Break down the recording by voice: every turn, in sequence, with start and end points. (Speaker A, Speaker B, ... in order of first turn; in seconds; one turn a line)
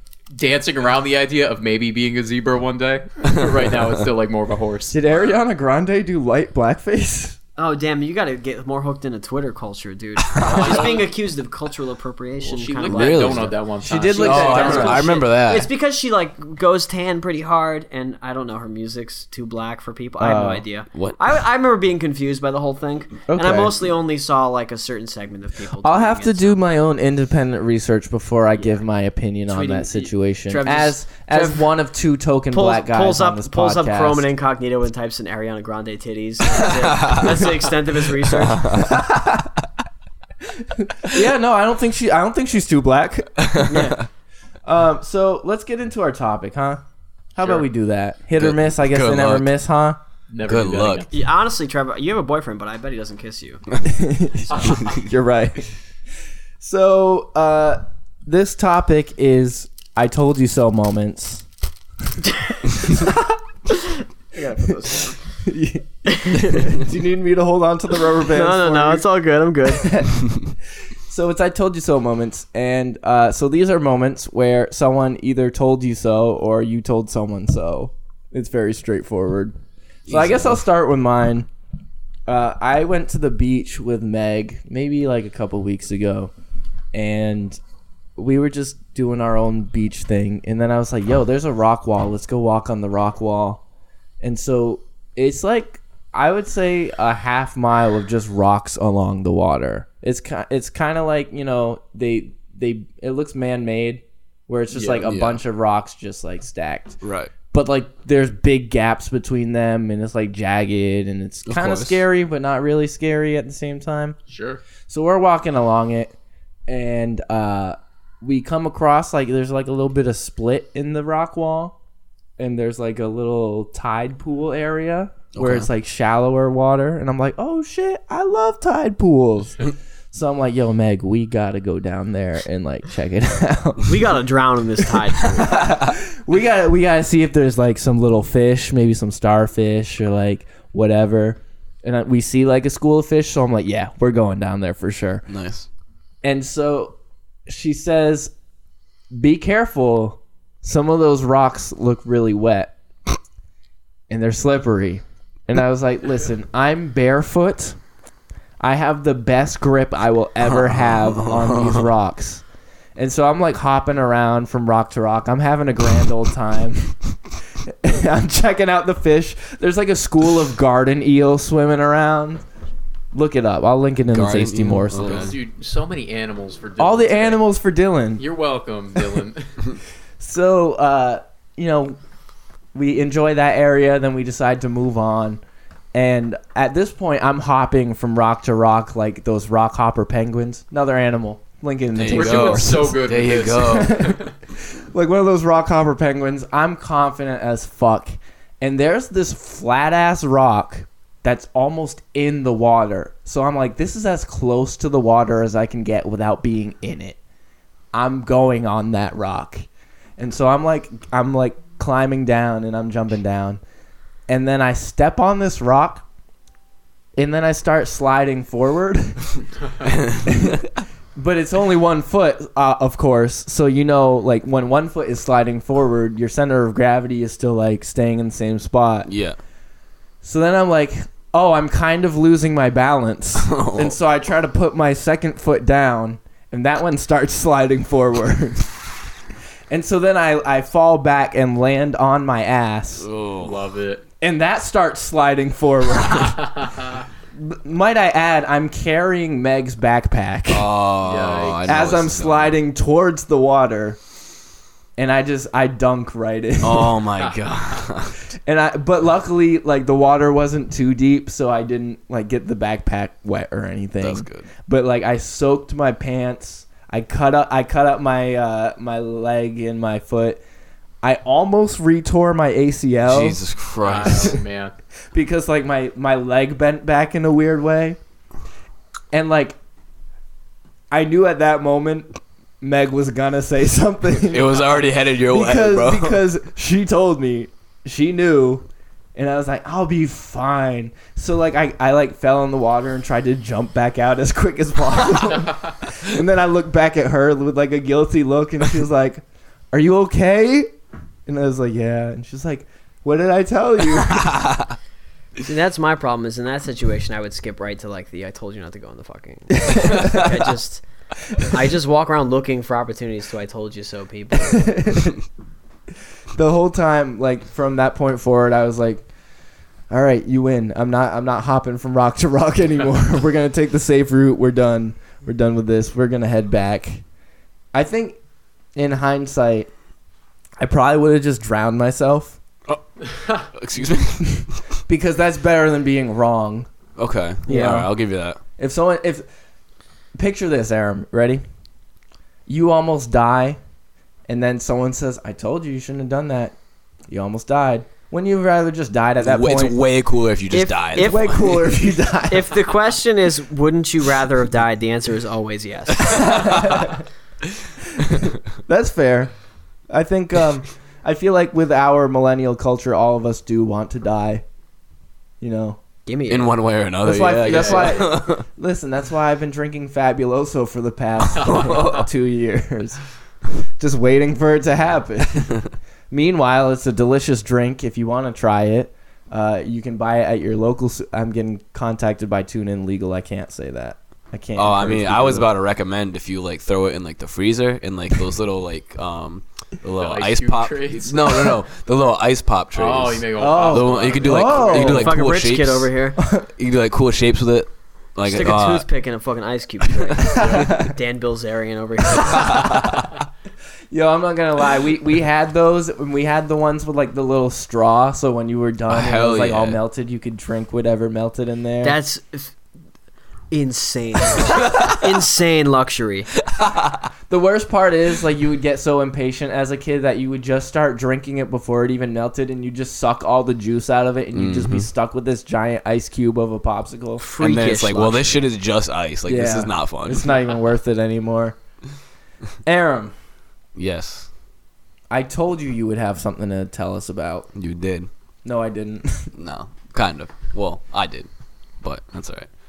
Speaker A: 0.3-5.1
Speaker B: 4.9-7.4
Speaker C: 7.6-13.5
Speaker D: 10.4-10.7
Speaker A: 10.4-11.1
Speaker A: 12.4-15.2
Speaker D: 12.9-13.5
Speaker B: 13.8-15.1
Speaker D: 14.2-15.7
Speaker C: 14.4-26.6
Speaker B: 20.2-20.6
Speaker D: 20.9-21.2
Speaker B: 23.3-23.8
Speaker B: 25.8-34.3
Speaker C: 29.5-31.7
Speaker C: 32.5-38.9
Speaker D: 36.7-37.4
Speaker D: 38.3-39.0
Speaker B: 38.8-39.5
Speaker B: 40.5-43.9
Speaker D: 43.4-44.0
Speaker C: 43.7-44.0
Speaker B: 44.6-46.8
Speaker B: 47.4-50.0
Speaker D: 48.4-49.5
Speaker A: 50.3-51.1
Speaker D: 50.5-51.1
Speaker C: 51.1-53.6
Speaker B: 53.8-55.7
Speaker D: 54.6-54.9
Speaker B: 56.6-61.5
Speaker C: 62.2-62.6
Speaker B: 62.9-63.4
Speaker C: 63.8-65.2
Speaker B: 65.4-69.1
Speaker C: 66.1-66.8
Speaker C: 68.2-69.9
Speaker B: 69.7-70.5
Speaker B: 71.1-79.5
Speaker B: 80.1-81.5
Speaker D: 80.1-80.5
Speaker B: 82.3-86.3
Speaker B: 86.9-87.6
Speaker B: 88.2-93.6
Speaker B: 94.2-114.2
Speaker D: 104.9-105.4
Speaker D: 107.0-107.3
Speaker D: 111.5-112.0
Speaker A: 114.3-114.6
Speaker B: 114.9-116.1
Speaker B: 116.7-121.8
Speaker B: 122.4-134.1
Speaker D: 125.3-125.7
Speaker C: 133.8-135.6
Speaker B: 135.2-145.2
Speaker D: 145.3-145.7
Speaker B: 146.2-147.0
Speaker B: 147.5-148.3
Speaker B: 149.1-152.7
Speaker B: 154.1-157.8
Speaker B: 158.6-162.4
Speaker D: 160.5-161.9
Speaker B: 163.0-167.0
Speaker B: 167.6-172.4
Speaker B: 173.1-175.4
Speaker D: 174.1-175.3
Speaker A: 174.9-177.4
Speaker B: 176.8-178.2
Speaker A: 178.2-179.7
Speaker B: 180.2-182.0
Speaker B: 182.7-185.4
Speaker B: 185.9-193.0
Speaker D: 191.9-194.0
Speaker A: 192.1-194.3
Speaker B: 193.6-207.2
Speaker B: 207.9-209.7
Speaker B: 210.2-213.6
Speaker B: 214.3-216.1
Speaker B: 217.2-219.4
Speaker D: 219.8-220.6
Speaker B: 220.3-220.6
Speaker B: 221.2-229.1
Speaker D: 229.1-229.4
Speaker B: 230.2-238.7
Speaker D: 233.4-234.0
Speaker B: 239.7-243.1
Speaker D: 243.0-243.6
Speaker A: 243.4-244.0
Speaker B: 244.2-246.5
Speaker A: 246.4-247.0
Speaker B: 247.3-250.7
Speaker D: 250.5-252.6
Speaker A: 251.0-251.8
Speaker B: 251.7-254.0
Speaker B: 255.0-257.0
Speaker D: 256.6-258.2
Speaker B: 258.4-270.4
Speaker D: 264.0-264.5
Speaker B: 271.0-273.4
Speaker D: 273.1-274.4
Speaker A: 273.8-274.7
Speaker B: 274.0-274.4
Speaker B: 275.1-278.0
Speaker B: 279.1-279.6
Speaker B: 280.9-300.7
Speaker D: 284.3-286.2
Speaker B: 301.3-304.4
Speaker D: 304.1-304.7
Speaker C: 305.4-310.8
Speaker B: 309.6-310.3
Speaker C: 311.4-314.7
Speaker B: 314.4-315.2
Speaker B: 316.4-319.1
Speaker B: 319.9-327.0
Speaker B: 327.7-328.2
Speaker B: 328.8-329.7
Speaker B: 330.6-332.4
Speaker A: 333.1-333.4
Speaker D: 333.5-334.5
Speaker B: 334.3-336.7
Speaker D: 337.0-338.4
Speaker C: 337.5-337.8
Speaker B: 337.5-337.9
Speaker B: 338.6-339.3
Speaker B: 340.1-341.4
Speaker B: 342.5-343.6
Speaker B: 344.3-346.6
Speaker B: 347.1-349.8
Speaker D: 349.2-351.6
Speaker C: 350.5-351.5
Speaker B: 351.0-352.6
Speaker C: 352.3-356.5
Speaker B: 356.1-357.0
Speaker B: 358.0-359.3
Speaker B: 359.9-364.4
Speaker B: 365.4-365.8
Speaker C: 366.1-366.5
Speaker D: 366.3-368.4
Speaker B: 367.0-373.0
Speaker A: 367.5-368.0
Speaker A: 371.4-371.9
Speaker D: 371.4-372.1
Speaker B: 373.8-385.5
Speaker D: 384.6-395.9
Speaker A: 390.0-391.6
Speaker A: 392.7-395.0
Speaker B: 393.4-395.2
Speaker C: 394.8-396.2
Speaker B: 396.2-396.5
Speaker D: 396.6-398.9
Speaker C: 398.2-402.7
Speaker B: 400.2-400.9
Speaker A: 400.4-400.7
Speaker B: 402.2-403.0
Speaker D: 402.5-403.1
Speaker B: 403.9-412.0
Speaker D: 408.9-409.8
Speaker C: 411.8-412.5
Speaker C: 413.5-416.3
Speaker D: 416.5-417.0
Speaker B: 417.3-427.2
Speaker D: 424.3-424.9
Speaker C: 427.2-428.4
Speaker D: 427.4-430.3
Speaker B: 429.3-431.6
Speaker B: 432.6-433.1
Speaker D: 433.8-434.3
Speaker B: 435.1-437.5
Speaker D: 437.6-438.1
Speaker B: 438.4-439.3
Speaker D: 439.4-441.3
Speaker D: 441.8-442.5